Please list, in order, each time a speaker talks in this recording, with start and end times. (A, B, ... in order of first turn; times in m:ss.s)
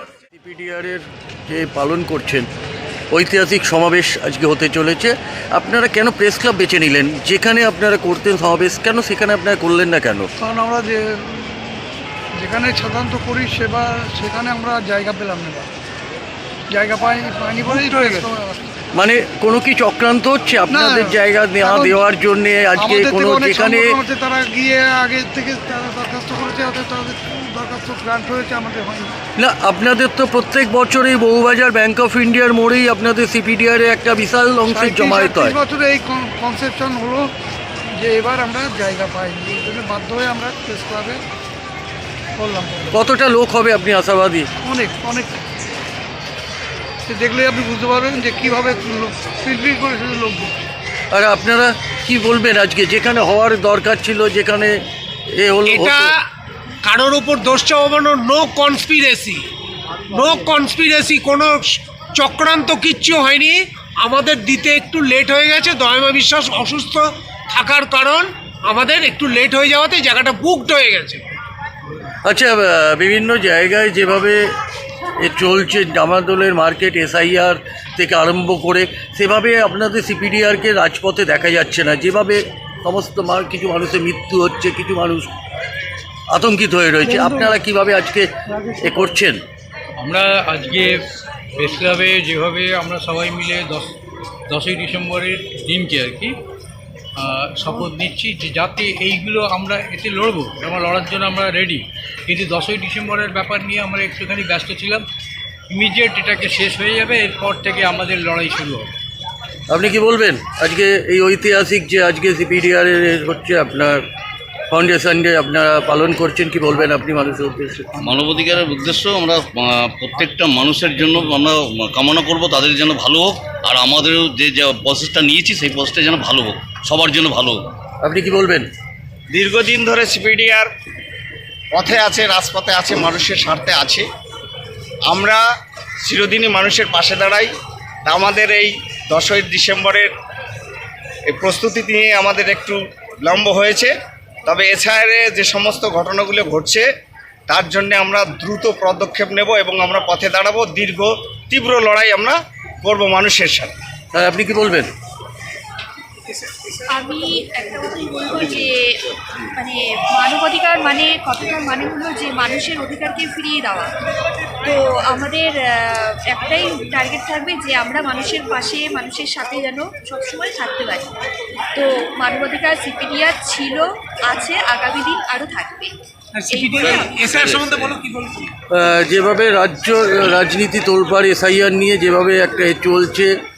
0:00.3-0:02.5 A
0:03.1-0:10.3 A
0:10.4-0:11.7 B
0:12.3-0:15.7 B
0:16.7-0:18.7 B
0:18.9-0:24.0 A
0:20.7-0:22.0 B
0:22.8-0:29.1 B
0:29.4-0:35.6 A
0:34.7-0:37.3 B
0:37.9-0:41.2 B
0:42.4-0:43.0 B
0:42.9-0:44.5 A
0:44.6-0:45.4 B
0:47.1-0:50.5 B
0:51.1-0:54.8 A
0:55.3-0:56.1 A
0:55.7-0:56.2 C
0:56.8-0:59.4 C
1:00.1-1:11.2 C
1:12.2-1:14.5 A
1:15.2-1:25.3 A
1:26.3-1:29.4 A
1:27.1-1:27.5 B
1:30.0-1:31.0 D
1:31.5-1:33.9 D
1:34.5-1:36.3 D
1:37.2-1:45.0 D
1:45.7-1:48.9 D
1:49.7-1:54.0 A
1:54.7-1:57.9 A
1:58.0-2:07.6 E
2:08.0-2:08.7 A
2:09.3-2:10.7 F
2:11.7-2:14.0 F
2:15.0-2:15.4 F
2:16.0-2:17.5 F
2:18.0-2:20.1 F
2:21.3-2:23.9 F
2:24.4-2:26.8 F
2:27.5-2:33.7 F
2:34.1-2:34.9 A
2:36.9-2:39.0 G
2:39.5-2:43.9 G
2:44.6-2:51.1 G
2:51.7-2:55.9 G
2:56.3-2:58.5 C
2:56.5-2:57.3 G
2:56.8-2:57.7 E
2:58.7-3:03.3 A